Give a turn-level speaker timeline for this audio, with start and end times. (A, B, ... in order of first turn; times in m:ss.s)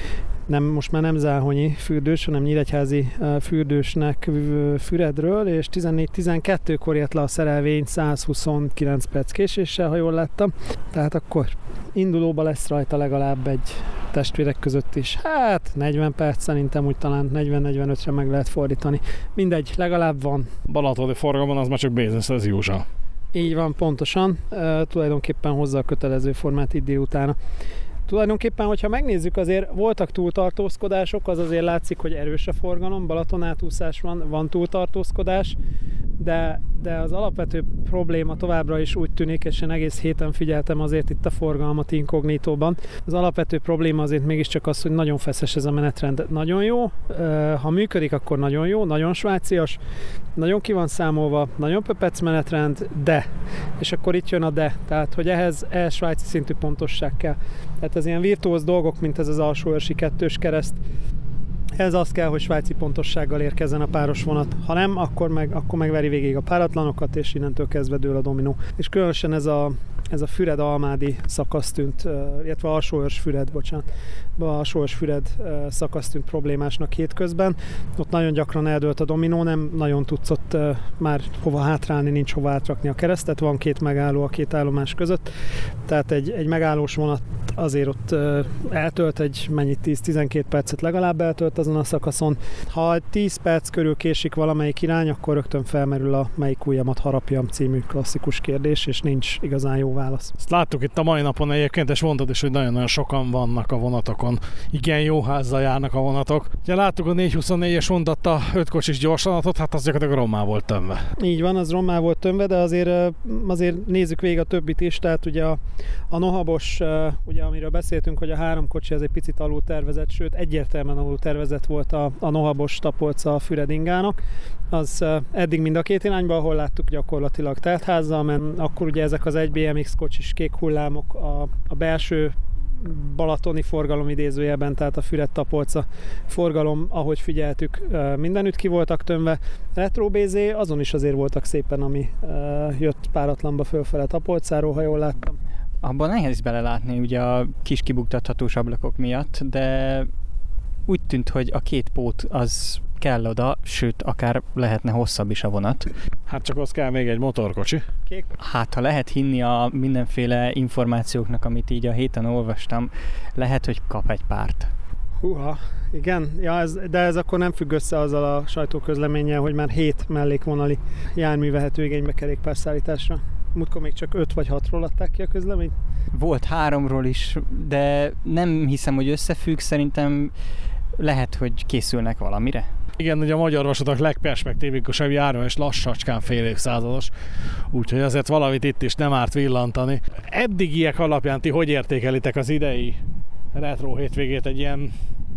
0:00.5-0:20.5 A
0:20.7-0:22.8 B
0:23.3-0:27.4 A
0:28.1-0:35.6 A
0:36.2-0:49.8 A
0:50.4-0:53.2 A
0:53.8-1:00.8 A
1:01.8-1:25.3 A
1:25.8-1:40.3 A
1:40.4-1:51.0 B
1:51.2-2:04.2 A
2:04.7-2:25.4 A
2:25.8-2:30.1 C
2:30.9-2:35.9 C
2:36.3-2:37.8 B
2:38.4-2:44.7 C
2:45.2-2:55.7 A
2:56.1-3:00.3 C
3:01.0-3:02.7 C
3:03.0-3:07.1 B
3:07.7-3:13.0 B
3:13.5-3:14.9 B